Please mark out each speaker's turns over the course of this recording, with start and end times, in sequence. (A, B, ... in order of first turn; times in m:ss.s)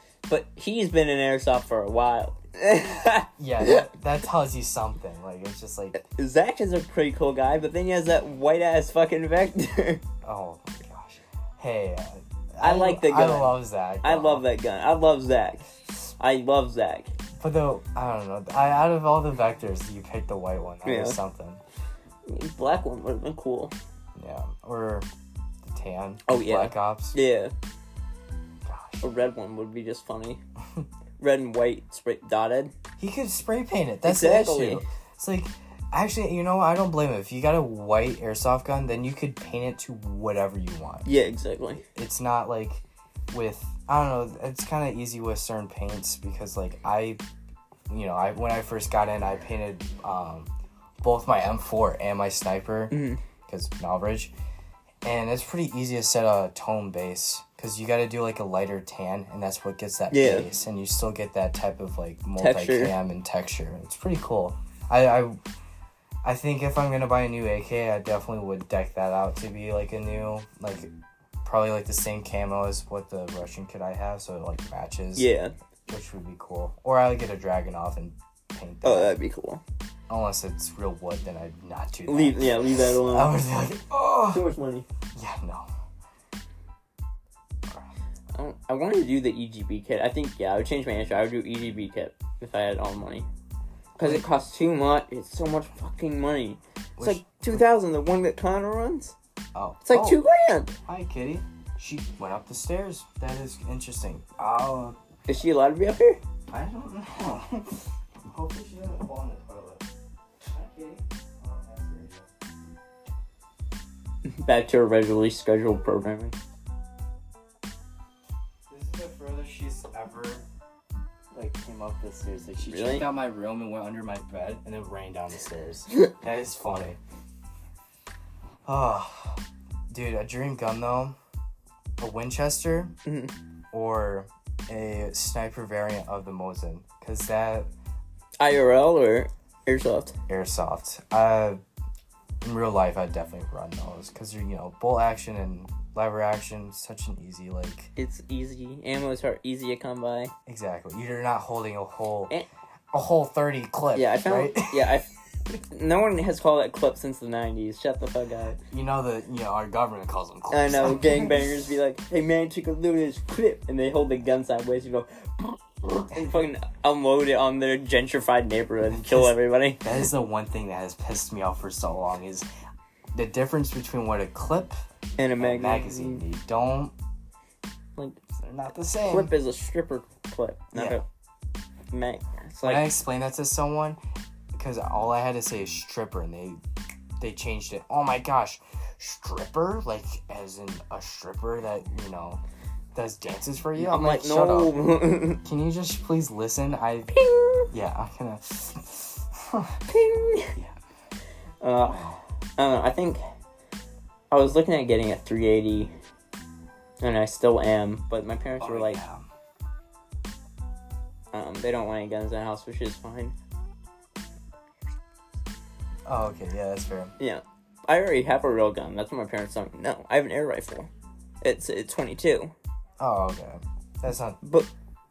0:00.3-0:03.9 A
0:03.4-0:06.0 B
0:05.9-0:10.0 A
0:10.2-0:14.4 B
0:12.6-0:17.1 A
0:17.4-0:21.6 B
0:20.8-0:21.2 A
0:22.2-0:23.7 A
0:24.2-0:25.1 B
0:25.6-0:27.2 B
0:26.2-0:27.5 A
0:28.6-0:29.0 B
0:29.0-0:30.4 A
0:31.2-0:32.7 A
0:33.0-0:41.0 B
0:34.0-0:34.9 A
0:41.0-0:41.8 A
0:41.9-0:47.2 B
0:47.9-0:50.5 B
0:51.0-0:53.0 B
0:52.9-0:53.2 A
0:53.5-0:54.3 B
0:55.0-1:05.4 B
1:00.1-1:00.5 A
1:02.4-1:02.9 A
1:06.2-1:10.9 B
1:11.4-1:15.3 B
1:15.2-1:15.5 A
1:15.9-1:19.1 B
1:18.8-1:19.6 A
1:20.1-1:24.5 B
1:22.1-1:23.3 A
1:24.3-1:24.8 A
1:25.1-1:25.7 B
1:28.3-1:33.3 A
1:34.0-1:39.1 A
1:34.0-1:34.2 B
1:37.0-1:37.2 B
1:39.5-1:40.2 B
1:39.8-1:40.8 A
1:40.8-1:45.0 B
1:45.3-1:46.2 A
1:46.5-1:49.8 B
1:50.4-1:52.3 B
1:54.3-1:56.4 A
1:58.7-2:00.4 B
2:01.3-2:07.0 B
2:02.6-2:03.0 A
2:08.6-2:11.2 B
2:12.0-2:12.9 B
2:13.0-2:13.3 A
2:13.7-2:17.7 B
2:18.4-2:20.1 A
2:20.3-2:21.6 B
2:22.4-2:27.9 B
2:28.0-2:30.3 A
2:30.4-2:32.3 B
2:32.9-2:34.9 B
2:33.9-2:38.6 A
2:38.6-2:41.4 B
2:40.5-2:49.9 A
2:48.9-2:52.5 B
2:53.1-2:54.7 B
2:55.2-2:56.2 A
2:55.4-2:56.9 B
2:58.3-2:59.3 B
2:59.1-3:01.0 A
3:00.7-3:01.0 B
3:01.9-3:02.9 A
3:02.6-3:04.0 B
3:04.6-3:06.6 B
3:07.2-3:12.4 B
3:12.9-3:14.8 B
3:13.8-3:15.4 A
3:15.4-3:17.1 B
3:17.1-3:17.7 A
3:17.7-3:19.8 B
3:19.9-3:20.6 A
3:21.6-3:23.2 A
3:24.3-3:25.9 A
3:27.0-3:29.0 A
3:28.6-3:29.2 B
3:31.3-3:33.3 A
3:36.1-3:37.1 B
3:37.2-3:40.9 A
3:41.4-3:42.5 A
3:43.0-3:44.4 B
3:44.4-3:44.7 A